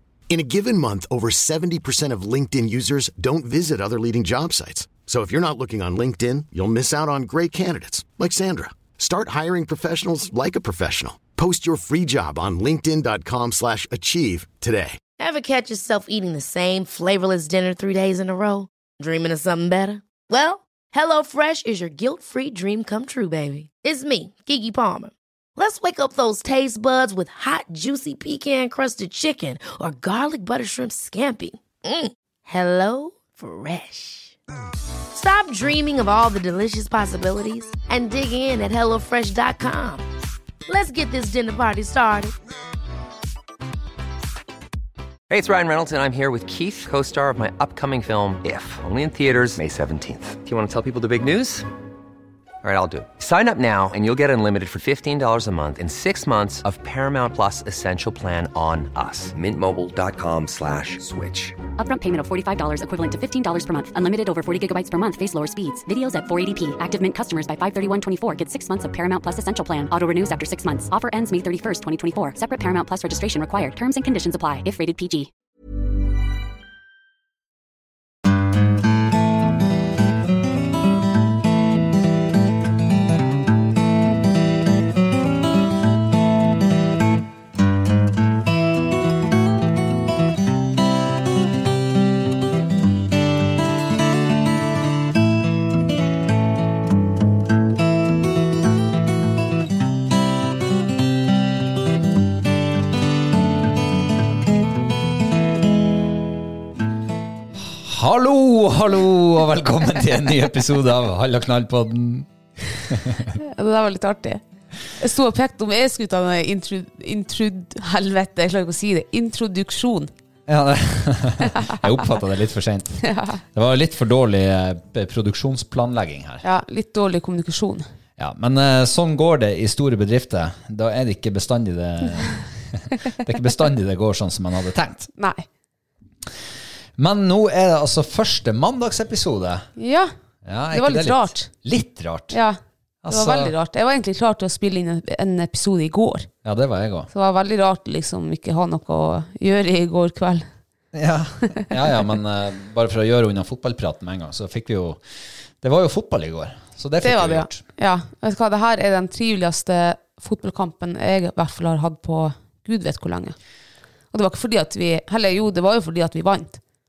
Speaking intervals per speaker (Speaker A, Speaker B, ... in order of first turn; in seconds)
Speaker A: 0.3-15.0
Speaker B: 15.2-34.4, 35.1-40.0, 40.7-42.4
Speaker C: 45.3-51.7, 52.6-61.6
Speaker D: 61.8-75.3
Speaker E: 107.6-113.4, 120.5-126.4, 128.2-135.1, 137.0-139.7, 140.4-142.4, 143.0-143.5, 146.4-147.1, 150.9-155.0, 155.6-157.6
Speaker F: 113.3-114.4, 115.0-120.1, 123.0-123.4, 126.4-127.8, 135.2-135.5, 139.8-140.1, 140.7-141.5, 142.3-142.6, 143.1-146.3, 147.1-150.5, 157.0-163.3, 164.1-166.6